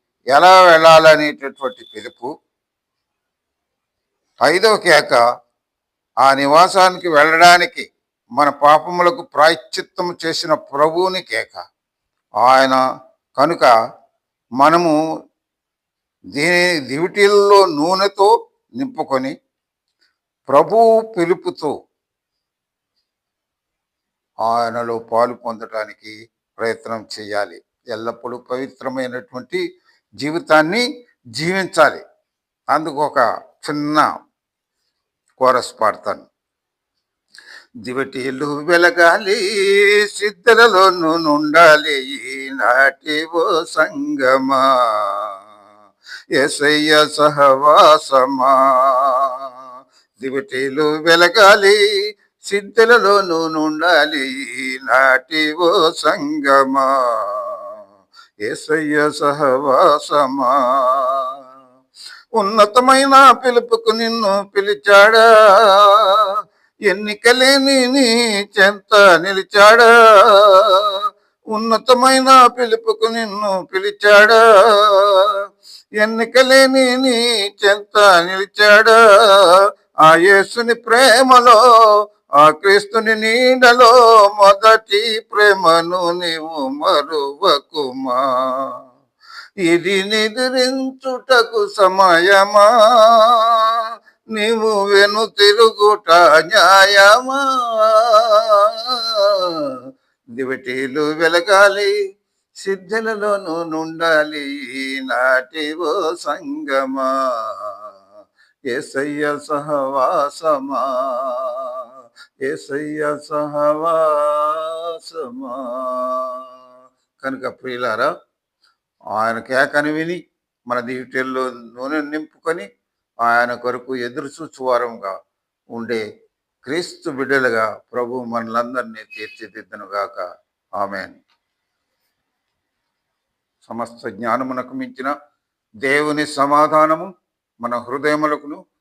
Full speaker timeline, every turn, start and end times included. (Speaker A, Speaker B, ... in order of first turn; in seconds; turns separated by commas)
Speaker A: 0.3-2.3, Speaker A: 4.5-5.2, Speaker A: 6.2-7.9, Speaker A: 8.4-11.6, Speaker A: 12.4-12.8, Speaker A: 13.4-13.7, Speaker A: 14.6-14.9, Speaker A: 16.3-19.3, Speaker A: 20.5-21.7, Speaker A: 24.4-29.6, Speaker A: 30.2-30.8, Speaker A: 31.3-32.0, Speaker A: 32.7-34.1, Speaker A: 35.4-36.3, Speaker A: 37.8-45.3, Speaker A: 46.4-49.5, Speaker A: 50.2-51.8, Speaker A: 52.5-57.6, Speaker A: 58.4-61.3, Speaker A: 62.4-66.2, Speaker A: 66.9-71.0, Speaker A: 71.5-75.3, Speaker A: 76.0-81.6, Speaker A: 82.4-88.7, Speaker A: 89.6-93.7, Speaker A: 94.3-99.4, Speaker A: 100.4-101.9, Speaker A: 102.6-107.7, Speaker A: 108.7-111.8, Speaker A: 112.4-116.4, Speaker A: 117.2-118.1, Speaker A: 119.1-120.2, Speaker A: 120.7-122.7, Speaker A: 123.2-125.1, Speaker A: 125.7-126.0, Speaker A: 126.6-130.2, Speaker A: 130.8-131.2, Speaker A: 133.6-135.1, Speaker A: 135.8-137.1, Speaker A: 137.6-138.6